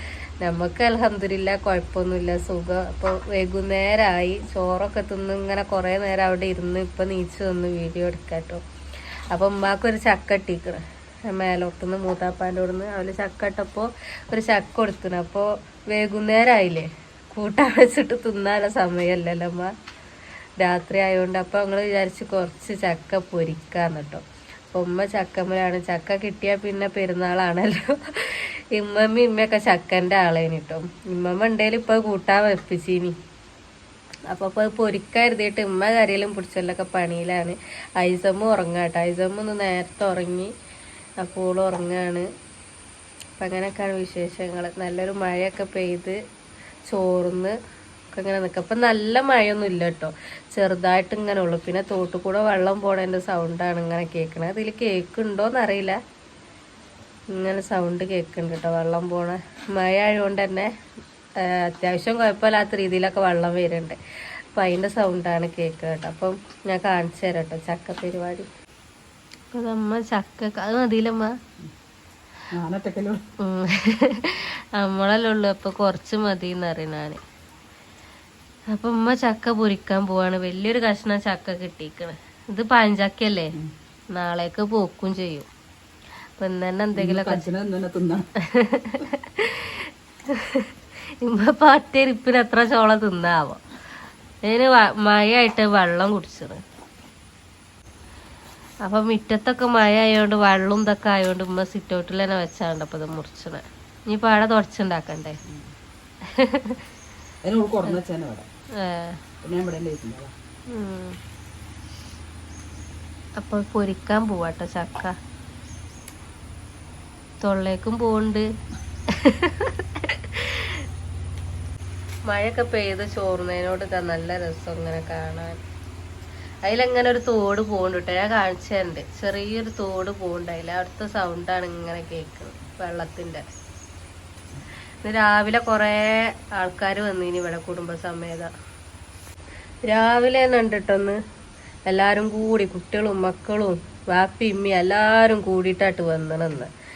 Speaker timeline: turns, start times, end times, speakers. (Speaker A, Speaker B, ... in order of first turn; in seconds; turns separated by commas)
Speaker A: 0.4-8.6, Speaker A: 9.3-19.7, Speaker A: 20.6-33.1, Speaker A: 34.3-40.5, Speaker A: 41.2-42.3, Speaker A: 43.4-46.2, Speaker A: 46.9-47.5, Speaker A: 48.1-56.0, Speaker A: 57.3-60.7, Speaker A: 61.4-64.0, Speaker A: 64.5-68.5, Speaker A: 69.5-71.3, Speaker B: 72.5-73.2, Speaker A: 73.4-77.2, Speaker A: 78.7-83.5, Speaker A: 84.1-85.5, Speaker A: 86.4-87.5, Speaker B: 86.9-88.2, Speaker A: 88.4-90.7, Speaker A: 91.2-93.6, Speaker A: 94.4-96.6, Speaker A: 98.8-105.4, Speaker A: 106.2-106.8, Speaker B: 107.4-108.5, Speaker A: 108.8-109.2, Speaker B: 109.4-110.3, Speaker A: 110.7-111.2, Speaker A: 113.4-115.1, Speaker A: 117.4-118.5, Speaker A: 119.1-120.8, Speaker A: 122.3-125.6, Speaker A: 126.6-133.4, Speaker A: 135.0-138.5, Speaker A: 139.8-141.2, Speaker A: 141.9-146.7